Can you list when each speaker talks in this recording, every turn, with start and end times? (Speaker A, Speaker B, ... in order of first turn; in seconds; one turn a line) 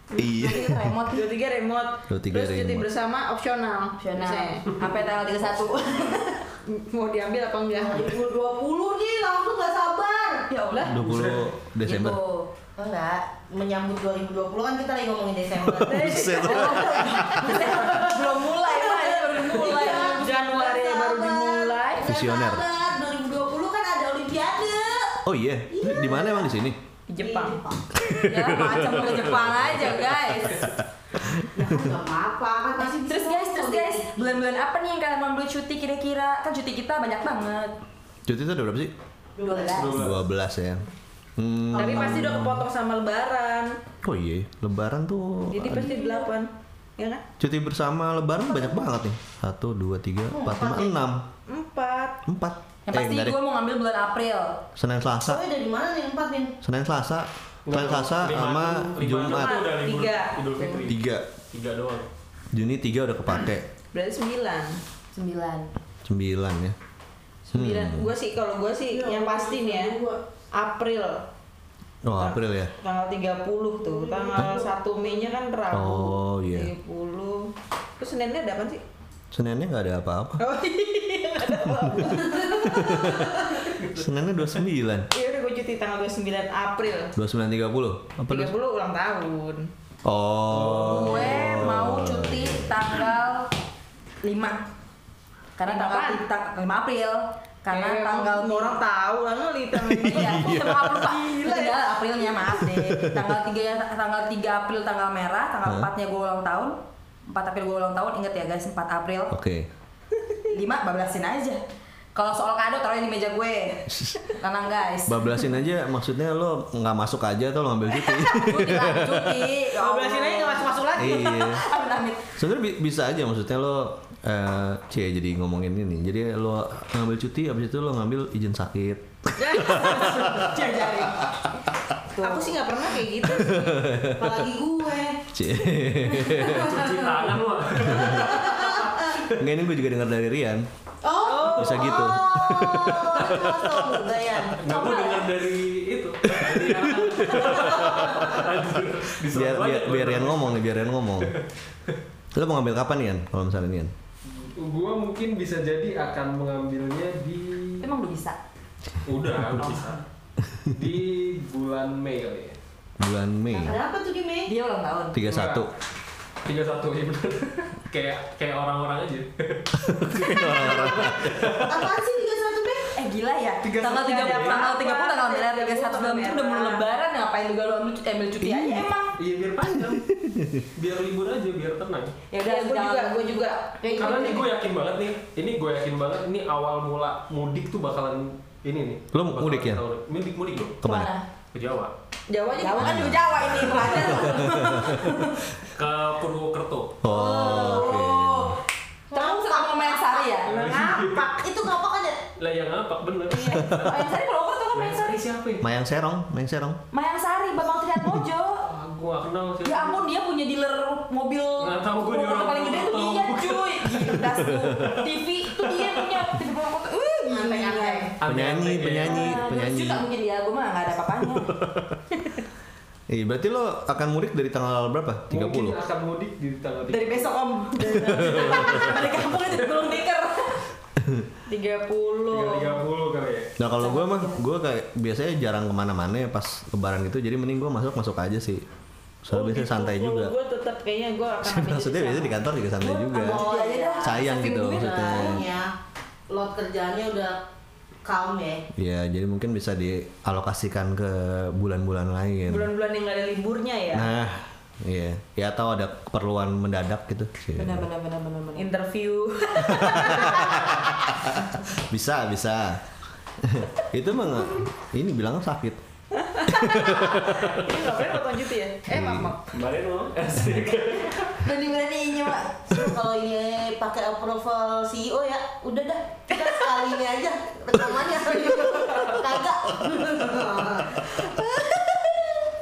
Speaker A: 0.2-0.9
Speaker B: 0.2-1.0
Speaker C: 0.7-1.2
Speaker D: 1.1-4.8
Speaker A: 2.1-2.9
Speaker C: 4.0-6.4
Speaker D: 6.7-8.1
Speaker B: 7.7-10.5
Speaker C: 10.5-11.2
Speaker A: 10.8-12.2
Speaker E: 11.0-11.5
Speaker C: 11.8-12.5
Speaker B: 12.8-16.4
Speaker A: 15.7-17.7
Speaker D: 15.8-17.2
Speaker C: 16.4-20.6
Speaker B: 17.5-26.6
Speaker D: 19.6-22.1
Speaker A: 22.1-22.6
Speaker A: 25.2-26.8
Speaker D: 27.1-27.6
Speaker B: 27.2-27.8
Speaker A: 28.0-31.9
Speaker C: 28.1-30.7
Speaker B: 31.5-34.4
Speaker C: 32.8-37.8
Speaker A: 38.3-38.9
Speaker B: 39.4-40.2
Speaker C: 39.4-39.9
Speaker E: 39.7-40.2
Speaker A: 39.9-40.9
Speaker A: 41.4-42.7
Speaker D: 41.7-43.8
Speaker B: 41.8-42.1
Speaker A: 44.0-46.0
Speaker D: 45.5-47.2
Speaker B: 45.9-46.2
Speaker A: 47.4-51.3
Speaker B: 50.3-51.0
Speaker D: 51.5-52.2
Speaker A: 52.3-53.4
Speaker C: 52.9-54.6
Speaker A: 54.8-55.4
Speaker B: 55.2-56.6
Speaker A: 56.6-59.6
Speaker E: 57.7-61.0
Speaker D: 59.3-60.9
Speaker A: 60.9-61.3
Speaker E: 61.5-62.1
Speaker A: 62.5-63.7
Speaker D: 63.9-64.8
Speaker C: 65.1-65.7
Speaker A: 66.0-66.8
Speaker D: 67.5-70.0
Speaker A: 67.5-68.1
Speaker B: 68.9-70.2
Speaker D: 70.5-71.2
Speaker A: 72.0-72.7
Speaker D: 72.2-78.8
Speaker B: 73.8-75.3
Speaker A: 75.7-76.7
Speaker A: 79.3-80.4
Speaker D: 80.4-83.2
Speaker A: 81.5-85.1
Speaker B: 82.0-83.6
Speaker E: 83.8-84.1
Speaker D: 85.1-87.1
Speaker A: 87.2-88.5
Speaker D: 88.3-89.7
Speaker A: 90.0-92.7
Speaker E: 90.5-91.6
Speaker C: 90.8-93.5
Speaker C: 94.2-94.7
Speaker C: 95.6-98.8
Speaker D: 95.7-96.2
Speaker D: 97.7-101.9
Speaker A: 99.9-101.1
Speaker C: 100.0-106.8
Speaker A: 102.6-103.4
Speaker A: 105.6-105.9
Speaker C: 107.3-109.4
Speaker A: 109.3-109.7
Speaker C: 110.5-111.6
Speaker C: 112.2-115.5
Speaker A: 113.9-114.2
Speaker A: 115.1-119.5
Speaker C: 118.2-122.2
Speaker D: 119.8-121.6
Speaker A: 121.0-121.6
Speaker A: 122.4-130.6
Speaker C: 129.4-131.3
Speaker D: 129.6-130.5
Speaker C: 132.1-132.6
Speaker D: 132.2-133.8
Speaker A: 133.2-134.5
Speaker B: 134.1-135.2
Speaker A: 135.3-136.8
Speaker B: 136.3-139.2
Speaker E: 136.4-139.4
Speaker A: 137.8-138.3
Speaker A: 139.4-140.7
Speaker B: 141.0-145.3
Speaker D: 141.2-142.1
Speaker A: 141.5-144.1
Speaker E: 144.6-152.0
Speaker A: 146.3-148.4
Speaker A: 149.2-151.3
Speaker A: 152.3-153.9
Speaker E: 154.3-157.8
Speaker C: 157.8-158.4
Speaker E: 159.0-160.0
Speaker E: 160.7-162.6
Speaker A: 163.0-163.8
Speaker B: 163.6-164.5
Speaker C: 164.5-165.2
Speaker A: 165.1-165.7
Speaker E: 165.3-165.6
Speaker E: 166.4-171.9
Speaker A: 169.8-171.7
Speaker B: 171.6-172.9
Speaker C: 172.9-179.1
Speaker E: 173.6-174.6
Speaker D: 173.8-176.9
Speaker E: 179.2-180.1
Speaker A: 179.7-180.7
Speaker E: 180.8-182.1
Speaker C: 182.3-184.4
Speaker D: 182.4-184.4
Speaker E: 183.9-190.8
Speaker A: 189.1-189.8
Speaker A: 190.8-191.1
Speaker C: 190.8-191.2
Speaker E: 191.5-191.9
Speaker D: 192.3-193.1
Speaker C: 192.6-195.4
Speaker A: 192.8-195.2
Speaker E: 195.7-197.0
Speaker A: 197.0-198.6
Speaker C: 197.1-198.6
Speaker B: 197.4-198.1
Speaker B: 199.1-200.5
Speaker C: 199.1-200.9
Speaker E: 200.5-201.3
Speaker D: 200.5-201.3
Speaker B: 201.3-202.2
Speaker E: 202.4-204.1
Speaker A: 203.5-203.9
Speaker C: 203.7-205.2
Speaker E: 204.7-205.7
Speaker A: 205.6-206.8
Speaker C: 206.9-208.7
Speaker E: 208.6-210.0
Speaker C: 209.6-218.1
Speaker E: 211.6-216.3
Speaker A: 214.5-214.9
Speaker B: 217.3-218.1
Speaker E: 218.2-219.4
Speaker A: 218.2-220.0
Speaker C: 219.0-221.5
Speaker A: 223.1-225.8
Speaker E: 225.3-227.3
Speaker C: 226.9-230.7
Speaker A: 227.8-228.3
Speaker E: 228.1-229.8
Speaker A: 231.0-231.3
Speaker D: 231.5-232.8
Speaker E: 232.3-233.5
Speaker A: 233.6-238.7
Speaker C: 233.8-234.4
Speaker A: 239.2-240.3
Speaker D: 239.3-242.4
Speaker A: 241.4-243.5
Speaker C: 242.8-245.4
Speaker B: 243.1-245.7
Speaker A: 244.0-245.5
Speaker B: 246.3-247.4
Speaker B: 248.0-248.7
Speaker A: 248.8-252.7
Speaker D: 252.5-254.1
Speaker A: 253.9-257.9
Speaker C: 257.6-258.7
Speaker D: 258.6-260.9
Speaker A: 259.7-262.8
Speaker A: 263.4-265.8
Speaker D: 266.1-269.5
Speaker A: 266.5-267.5
Speaker A: 268.9-269.3
Speaker E: 269.5-271.4
Speaker C: 271.4-272.6
Speaker B: 272.7-282.5